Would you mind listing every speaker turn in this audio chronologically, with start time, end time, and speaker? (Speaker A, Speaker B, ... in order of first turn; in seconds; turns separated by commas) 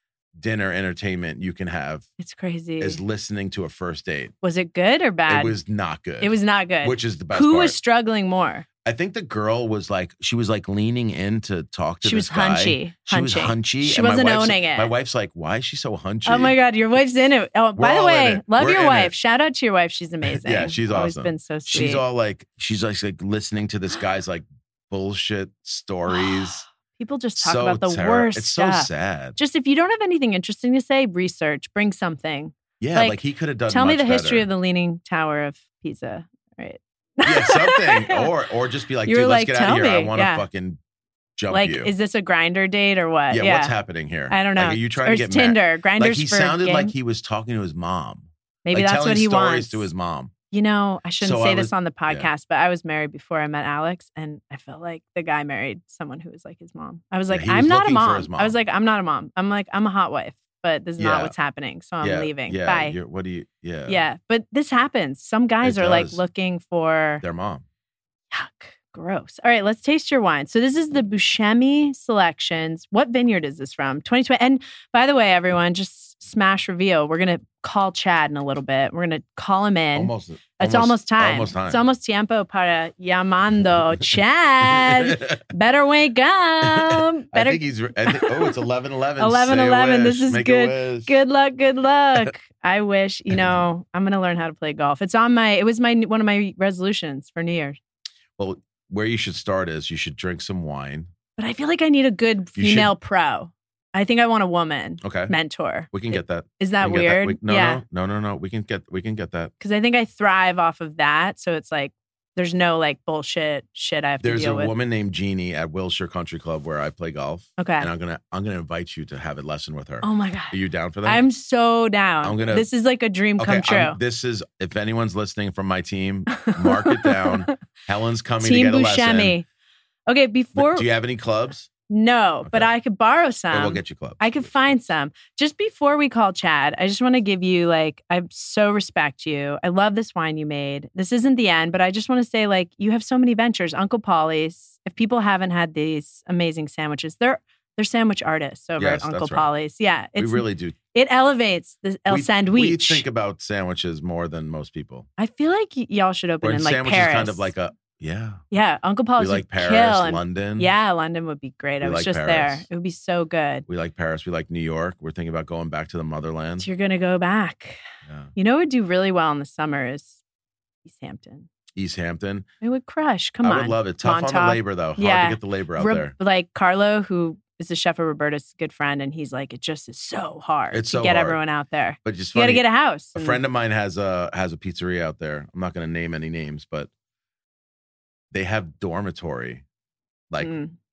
Speaker A: 0.4-2.1, Speaker B: 2.2-3.0, Speaker A: 2.8-4.3, Speaker B: 4.4-5.6, Speaker A: 5.3-7.8, Speaker B: 6.2-8.7, Speaker A: 8.8-16.6, Speaker B: 12.0-14.9, Speaker B: 16.2-22.0, Speaker A: 17.8-19.1, Speaker A: 20.2-26.6, Speaker B: 26.1-38.3, Speaker A: 27.4-29.4, Speaker A: 32.8-34.5, Speaker A: 37.2-40.8, Speaker B: 39.0-40.5, Speaker A: 41.4-41.9, Speaker B: 41.5-43.7, Speaker A: 43.3-50.3, Speaker B: 44.3-46.9, Speaker B: 48.6-49.9, Speaker B: 50.5-63.0, Speaker A: 51.2-52.3, Speaker A: 57.3-58.6, Speaker A: 61.0-61.3, Speaker A: 62.0-64.0, Speaker B: 63.9-67.2, Speaker A: 65.6-66.2, Speaker A: 67.2-67.7, Speaker B: 68.3-88.6, Speaker A: 80.0-81.8, Speaker A: 84.6-85.4, Speaker A: 86.6-91.1, Speaker B: 89.2-97.8, Speaker A: 98.4-101.1, Speaker B: 101.4-107.8, Speaker A: 102.6-102.9, Speaker A: 105.0-105.3, Speaker A: 105.9-109.5, Speaker B: 109.6-114.7, Speaker A: 114.2-121.2, Speaker B: 117.6-117.9, Speaker B: 120.0-124.0, Speaker A: 122.2-122.7, Speaker A: 123.4-129.4, Speaker B: 126.4-127.5, Speaker B: 128.4-129.5, Speaker B: 130.1-130.9, Speaker A: 130.6-131.7, Speaker B: 131.9-153.0, Speaker A: 132.4-132.7, Speaker A: 133.5-134.8, Speaker A: 148.8-149.5, Speaker A: 150.2-150.8, Speaker A: 152.1-155.1, Speaker B: 155.2-157.5, Speaker A: 156.4-158.4, Speaker B: 158.5-163.7, Speaker A: 159.2-160.7, Speaker A: 161.8-162.7, Speaker A: 163.7-166.7, Speaker B: 166.6-167.8, Speaker A: 168.1-168.3, Speaker B: 168.3-170.2, Speaker B: 170.8-171.5, Speaker A: 171.8-172.5, Speaker B: 172.6-183.4, Speaker A: 173.4-176.2, Speaker A: 180.7-181.4, Speaker A: 182.0-182.6, Speaker A: 183.2-186.9, Speaker A: 188.3-189.6, Speaker B: 190.4-190.8